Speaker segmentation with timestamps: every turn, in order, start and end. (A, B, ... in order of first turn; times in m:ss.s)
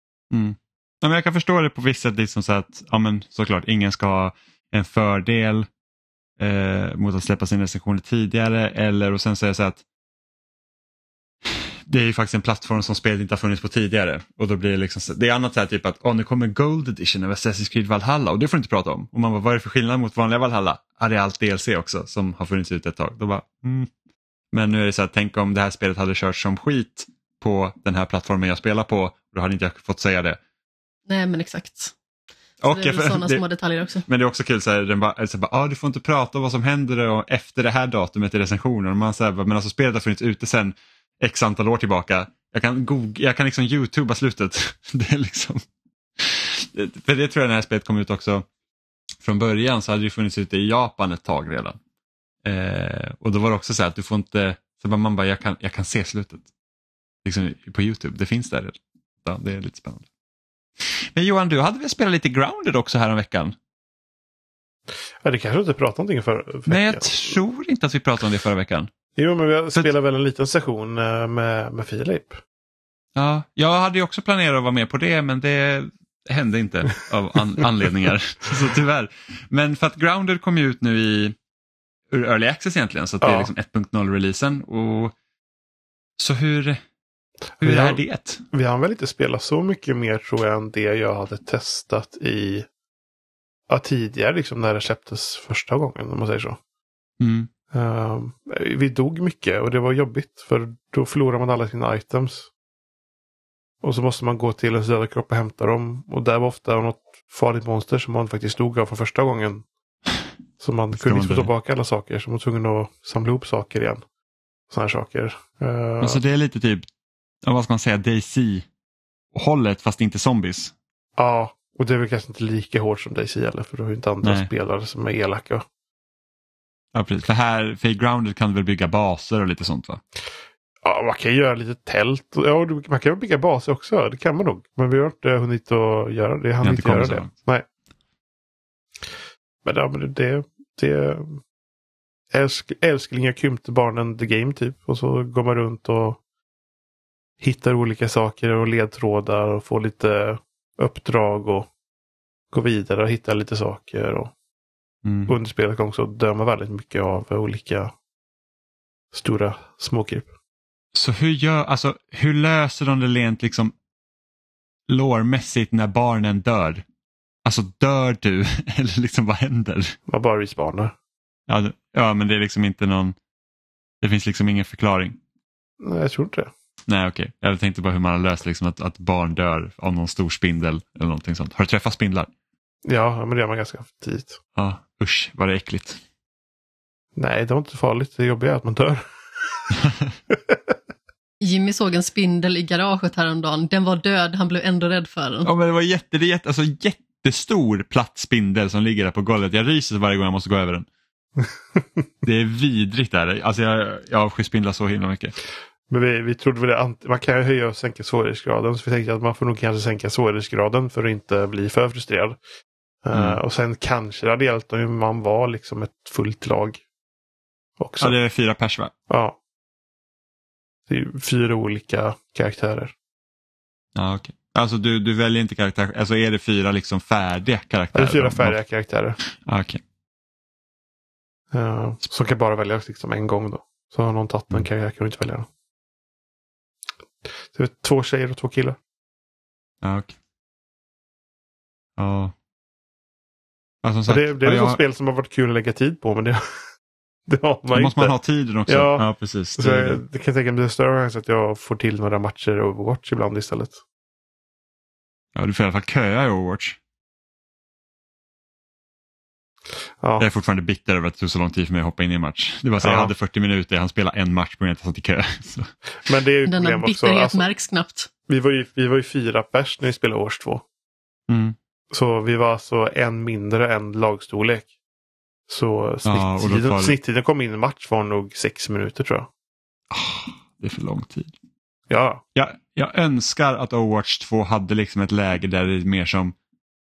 0:00.3-0:05.7 A
0:06.4-0:09.8 A
0:11.5-0:23.9 A
0:24.5-0:30.4 A
0:31.1-0:31.9 B
0:32.6-0:33.4 A
0:32.7-0:34.0 B
0:34.1-0:45.6 A
0:46.2-0:48.5 A
0:49.2-0:51.8 A
0:52.4-0:56.5 A
0:57.2-1:00.0 A
1:00.8-1:03.6 A
1:05.2-1:07.4 C
1:06.7-1:08.9 A
1:09.2-1:12.4 C
1:13.2-1:21.4 A
1:22.1-1:25.1 A
1:23.2-1:23.5 C
1:26.2-1:26.8 A
1:27.6-1:28.4 A
1:27.6-1:28.0 C
1:28.5-1:32.7 C
1:33.7-1:36.6 C
1:37.2-1:37.5 A
1:37.7-1:42.5 C
1:43.8-1:49.7 C
1:50.6-1:54.0 C
1:51.0-1:51.5 A
1:54.7-1:56.2 C
1:56.0-1:56.9 A
1:57.4-1:58.7 A
1:59.3-2:00.7 A
2:01.2-2:05.6 C
2:04.2-2:04.5 A
2:06.9-2:10.0 A
2:10.8-2:17.7 C
2:16.6-2:17.3 A
2:19.6-2:21.4 C
2:22.3-2:26.2 C
2:27.4-2:31.7 C
2:32.5-2:34.3 C
2:35.0-2:35.3 A
2:35.3-2:37.9 C
2:39.1-2:40.3 C
2:40.9-2:43.7 A
2:44.9-2:46.8 A
2:47.4-2:50.0 A
2:50.1-2:50.9 C
2:51.5-2:53.2 A
2:54.0-2:55.2 A
2:55.8-2:56.5 C
2:56.9-3:02.3 A
3:02.9-3:04.4 C
3:04.6-3:06.0 A
3:07.2-3:09.7 C
3:09.8-3:10.1 A
3:10.3-3:10.7 C
3:11.4-3:15.5 B
3:15.4-3:20.9 A
3:21.8-3:22.0 C
3:22.2-3:25.4 A
3:25.9-3:32.4 C
3:33.0-3:36.8 C
3:33.1-3:33.4 A
3:37.8-3:38.2 C
3:38.0-3:38.9 A
3:39.1-3:39.4 C
3:40.9-3:42.9 C
3:44.0-3:48.6 A
3:48.0-3:49.2 C
3:49.4-3:49.8 A
3:51.5-3:55.5 C
3:57.4-3:58.8 C
3:59.8-4:00.2 A
4:02.0-4:02.3 A
4:03.8-4:04.8 A
4:04.1-4:06.7 C
4:07.3-4:08.2 C
4:07.7-4:10.0 A
4:08.7-4:09.1 C
4:09.6-4:13.8 C
4:15.4-4:16.8 A
4:20.0-4:20.3 C
4:20.2-4:25.7 A
4:22.8-4:23.1 C
4:26.1-4:27.4 C
4:26.5-4:28.1 B
4:28.3-4:30.6 C
4:31.3-4:31.6 A
4:31.9-4:34.7 C
4:35.5-4:39.3 C
4:36.1-4:37.0 A
4:39.9-4:41.3 A
4:41.9-4:42.2 C
4:42.4-4:46.4 A